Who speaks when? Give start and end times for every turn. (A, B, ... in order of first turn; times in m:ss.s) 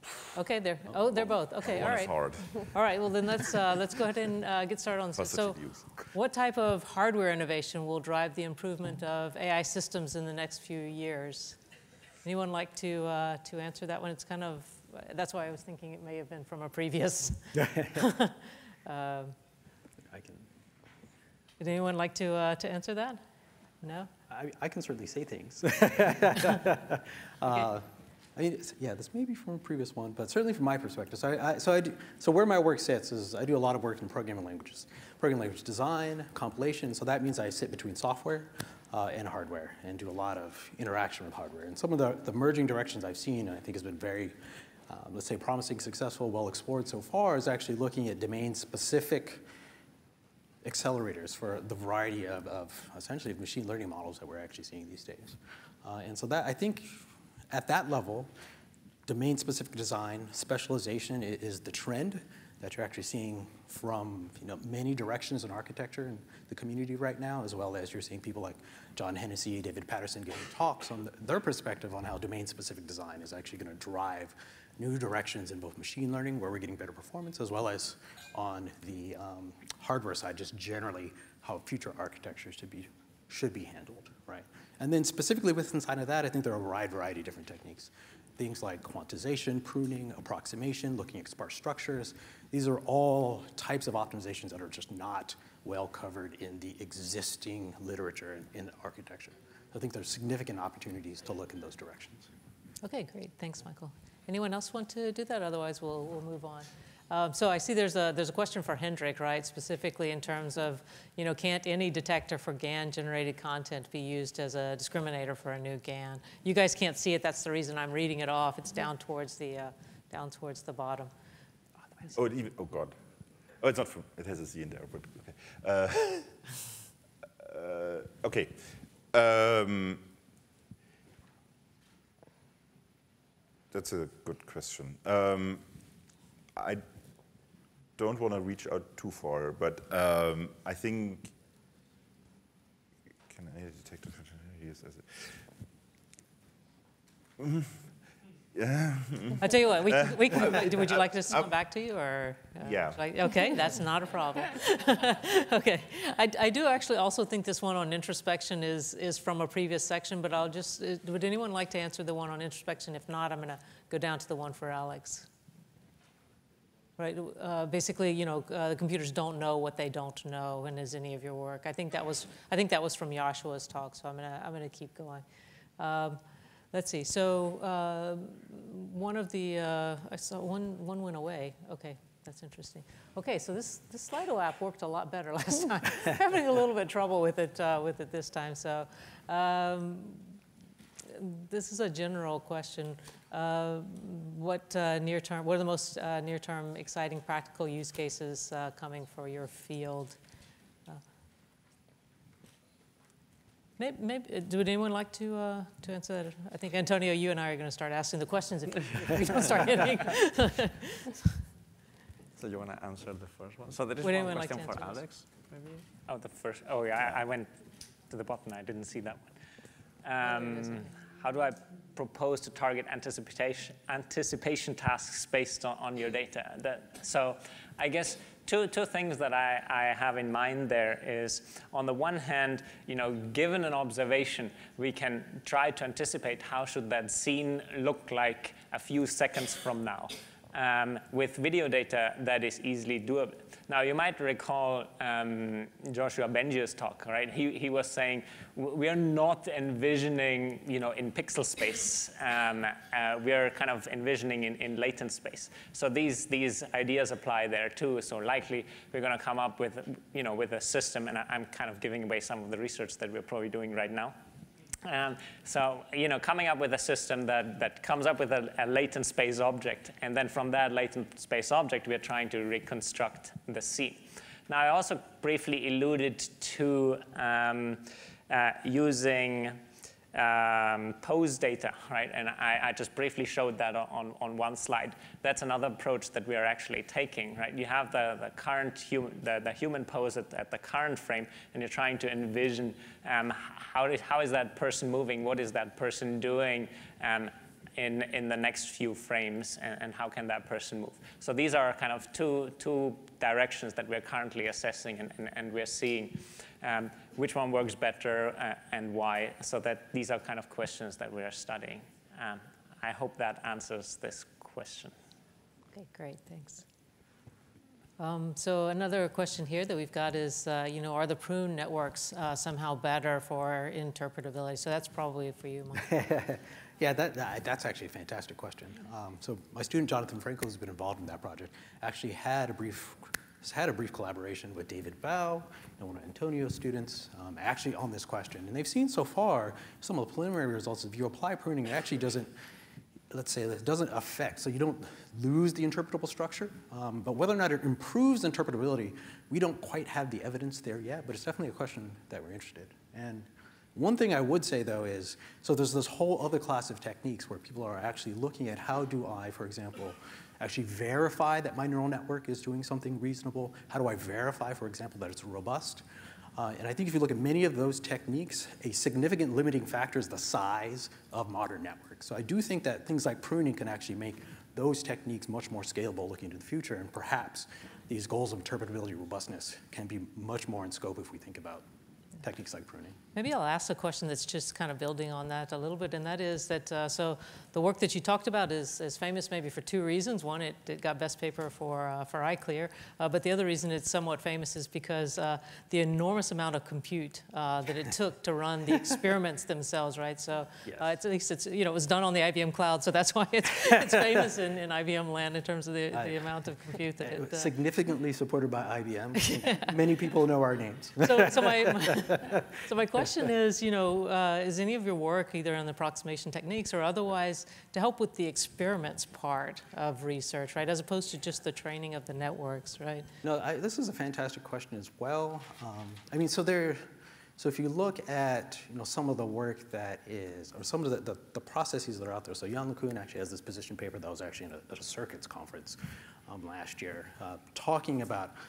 0:00.4-0:05.6 A
0:00.9-0:02.7 B
0:05.2-0:06.1 B
0:06.1-0:11.6 A
0:12.2-0:19.4 A
0:17.6-0:18.0 C
0:20.1-0:20.5 C
0:21.6-0:23.2 A
0:23.8-0:24.1 A
0:24.3-0:44.4 C
0:44.9-0:49.4 C
0:50.6-0:58.3 C
0:59.1-1:42.3 C
1:42.8-2:01.1 A
2:02.1-2:03.0 B
2:03.6-2:06.4 B
2:07.4-2:10.0 B
2:13.7-2:15.6 B
2:16.6-2:16.8 B
2:18.0-2:21.3 B
2:23.3-2:25.5 B
2:27.4-2:27.8 B
2:28.5-2:31.5 B
2:29.4-2:45.3 A
2:32.6-2:33.0 B
2:47.0-2:55.2 A
2:55.8-2:56.2 A
2:56.7-3:10.3 A
3:11.1-3:20.2 A
3:23.8-3:31.4 A
3:32.4-3:35.8 D
3:34.0-3:35.0 A
3:36.1-3:37.6 E
3:38.1-3:39.3 E
3:40.0-4:24.2 E
3:40.3-3:40.7 A
4:24.8-5:14.9 E
5:15.7-5:16.6 A
5:18.0-5:25.9 A
5:25.8-5:42.3 C
5:43.1-6:05.8 C
6:06.4-6:21.6 C
6:22.2-6:23.0 C
6:23.2-6:47.5 A
6:40.6-6:41.0 C
6:45.9-6:46.2 C
6:47.0-6:52.4 C
6:49.2-6:49.7 A
6:51.0-7:03.1 A
7:03.2-7:06.9 C
7:07.4-7:18.3 C